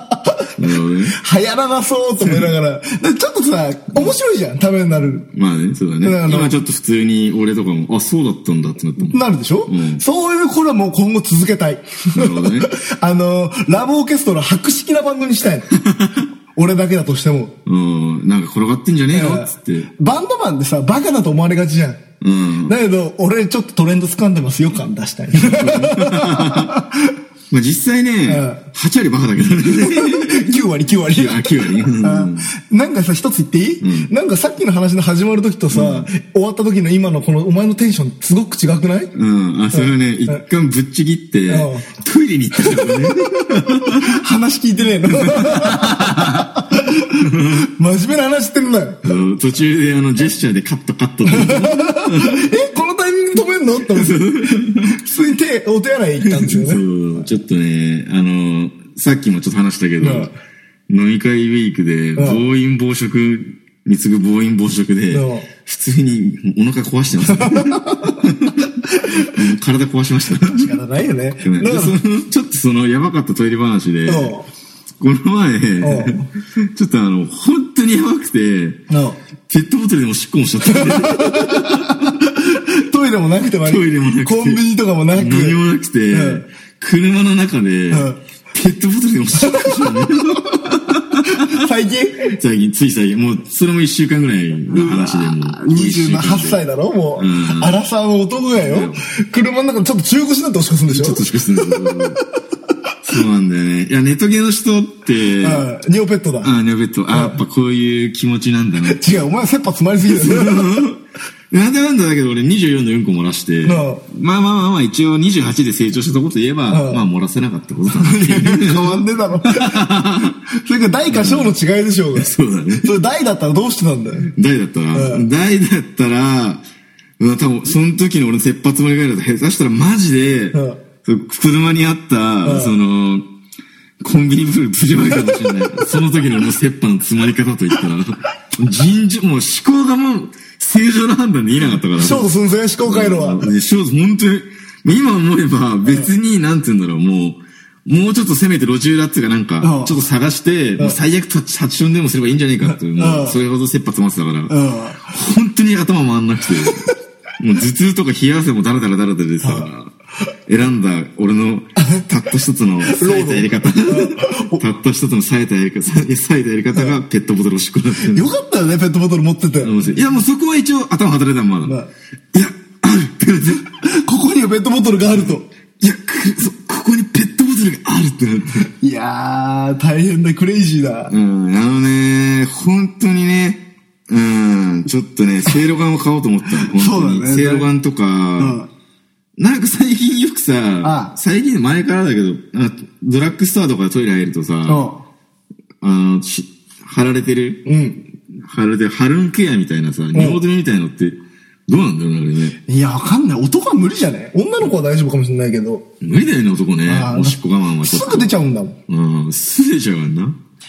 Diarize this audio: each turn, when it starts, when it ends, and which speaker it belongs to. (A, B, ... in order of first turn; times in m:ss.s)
0:00.6-0:01.1 A
0:01.1-0:05.2 B
0:02.2-0:02.5 A
0:05.3-0:10.0 A
0:06.0-0:06.5 B
0:09.1-0:15.7 B
0:12.1-0:12.7 A
0:15.8-0:16.1 A
0:16.5-0:17.5 B
0:17.6-0:19.9 A
0:19.1-0:22.0 B
0:22.2-0:22.7 A
0:22.7-0:27.1 B
0:25.3-0:26.8 A
0:27.5-0:30.4 A
0:28.2-0:28.6 B
0:29.8-0:39.1 B
0:31.1-0:32.5 A
0:33.8-0:34.1 A
0:35.7-0:36.1 A
0:39.1-0:44.2 A
0:39.7-0:40.4 B
0:41.5-0:41.9 B
0:42.6-0:49.0 B
0:45.2-0:46.5 A
0:47.1-0:47.6 A
0:49.0-0:52.4 A
0:51.3-0:57.3 B
0:53.9-0:55.0 A
0:56.2-1:00.3 A
1:00.0-1:00.3 B
1:00.9-1:10.8 A
1:02.2-1:02.4 B
1:05.1-1:05.5 B
1:07.3-1:08.2 B
1:08.9-1:09.3 B
1:10.5-1:12.0 B
1:11.4-1:14.4 A
1:14.0-1:14.5 B
1:15.0-1:18.8 A
1:15.8-1:16.2 B
1:18.9-1:19.2 B
1:19.5-1:22.1 A
1:20.6-1:25.6 B
1:23.6-1:24.6 A
1:25.1-1:31.5 A
1:26.1-1:26.4 B
1:27.9-1:28.2 B
1:29.4-1:30.6 B
1:31.2-1:32.4 B
1:32.4-1:36.6 A
1:34.7-1:42.2 B
1:37.2-1:37.8 A
1:38.5-1:39.0 A
1:40.9-1:42.2 A
1:43.0-1:45.7 A
1:45.4-1:46.5 B
1:46.4-1:49.0 A
1:47.1-1:47.4 B
1:48.8-1:50.8 B
1:50.0-1:51.0 A
1:51.5-2:00.4 A
1:53.6-1:54.0 B
1:56.7-1:57.0 B
1:57.9-1:59.8 B
2:00.5-2:04.3 B
2:01.1-2:01.6 A
2:02.1-2:02.9 A
2:04.3-2:06.6 A
2:04.9-2:05.2 B
2:07.2-2:13.2 A
2:10.5-2:10.8 B
2:12.4-2:12.7 B
2:14.0-2:22.3 A
2:22.0-2:23.5 B
2:22.8-2:34.5 A
2:29.6-2:30.0 B
2:32.7-2:33.4 B
2:34.5-2:35.2 B
2:35.1-2:36.9 A
2:37.4-2:39.9 A
2:39.4-2:39.7 B
2:40.5-2:48.3 A
2:41.8-2:42.0 B
2:42.8-2:44.6 B
2:48.0-2:49.8 B
2:49.6-2:51.8 A
2:51.6-2:51.9 B
2:52.3-2:53.6 A
2:53.7-2:55.4 B
2:55.1-2:58.7 A
2:58.7-3:01.1 B
3:01.1-3:08.6 A
3:06.6-3:07.7 B
3:08.4-3:08.7 B
3:09.4-3:14.9 A
3:10.8-3:11.1 B
3:14.6-3:15.0 B
3:15.8-3:17.6 A
3:17.6-3:18.0 B
3:18.3-3:22.6 A
3:20.1-3:20.4 B
3:22.7-3:25.8 B
3:26.0-3:28.4 A
3:26.8-3:28.8 B
3:28.9-3:30.4 A